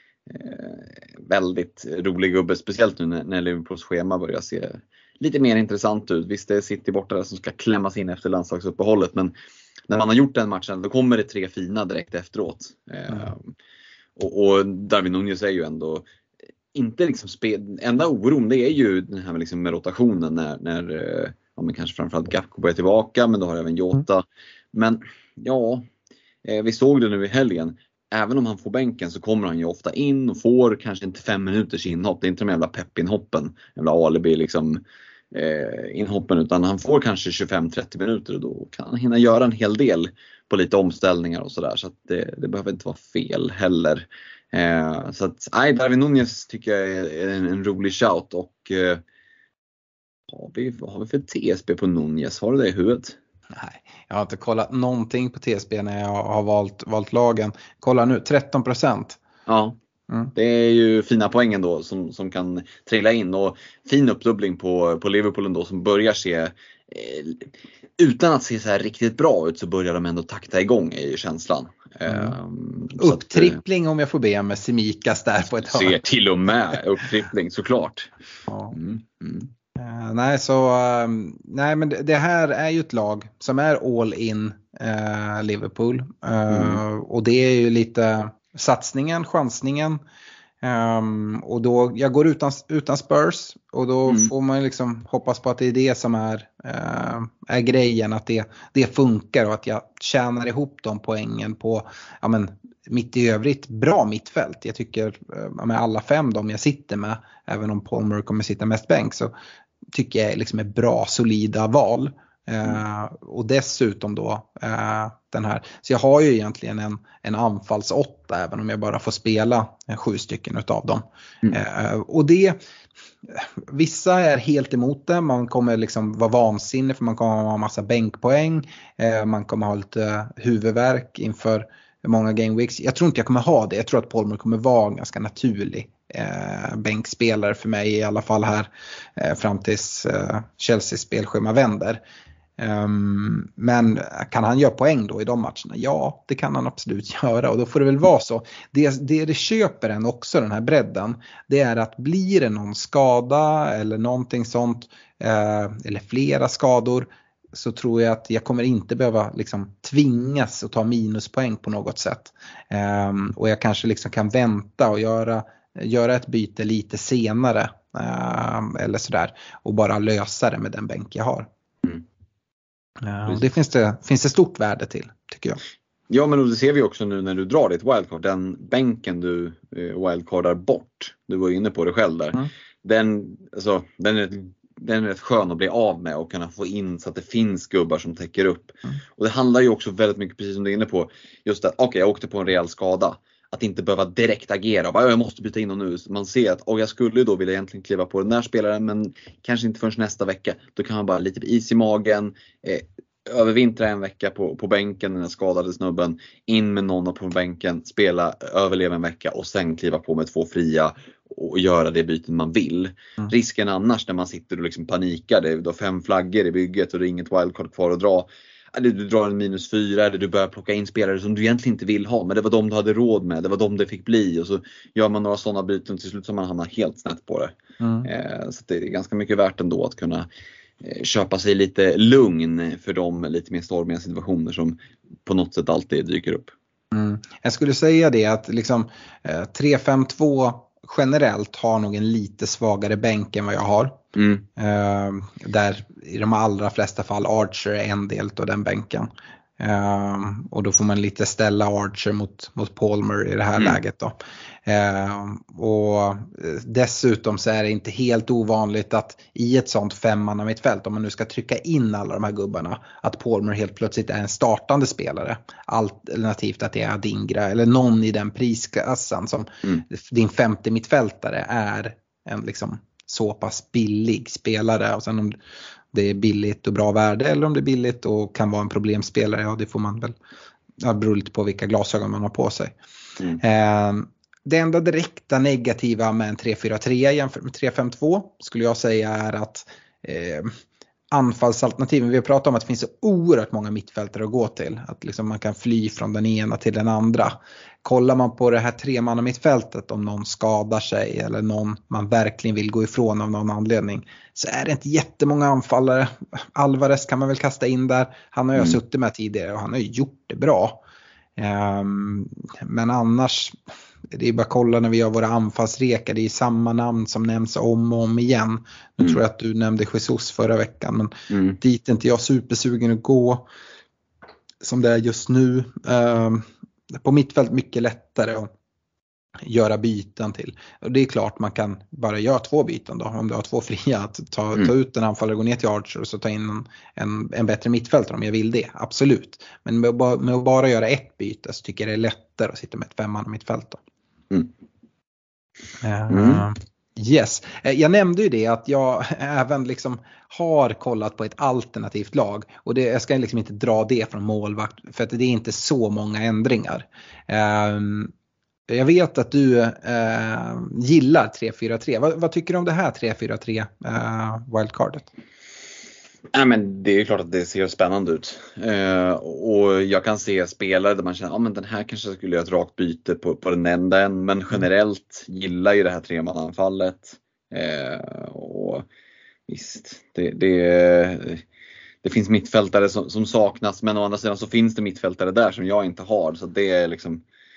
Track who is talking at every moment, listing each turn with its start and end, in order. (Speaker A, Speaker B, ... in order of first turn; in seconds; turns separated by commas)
Speaker A: 0.3-9.3, Speaker A: 9.9-13.5, Speaker A: 14.2-16.0, Speaker A: 16.7-25.9, Speaker A: 26.4-49.0, Speaker A: 50.3-53.2, Speaker B: 53.5-59.2, Speaker A: 59.5-59.8, Speaker A: 60.3-73.6, Speaker B: 72.1-72.3, Speaker B: 73.0-76.0, Speaker A: 75.6-78.1, Speaker B: 78.5-78.7, Speaker A: 78.7-79.5, Speaker B: 79.8-90.0, Speaker A: 86.5-86.8, Speaker B: 90.6-109.3, Speaker B: 109.9-122.6, Speaker B: 123.3-142.0, Speaker B: 142.6-171.5, Speaker B: 173.0-175.6, Speaker A: 173.2-173.5, Speaker A: 176.1-230.3, Speaker B: 227.8-228.1, Speaker A: 230.8-236.5, Speaker B: 236.9-244.0, Speaker A: 244.1-244.4, Speaker B: 244.6-254.1, Speaker B: 254.7-275.4, Speaker B: 275.9-280.1, Speaker B: 280.8-282.8, Speaker B: 283.4-290.6, Speaker B: 291.1-310.8, Speaker B: 311.4-313.6, Speaker B: 314.1-323.4, Speaker A: 321.3-321.6, Speaker B: 324.6-328.5, Speaker B: 329.4-343.8, Speaker B: 345.8-358.1, Speaker A: 346.1-346.4, Speaker B: 358.7-365.1, Speaker A: 366.3-378.9, Speaker A: 379.5-381.4, Speaker A: 382.0-387.2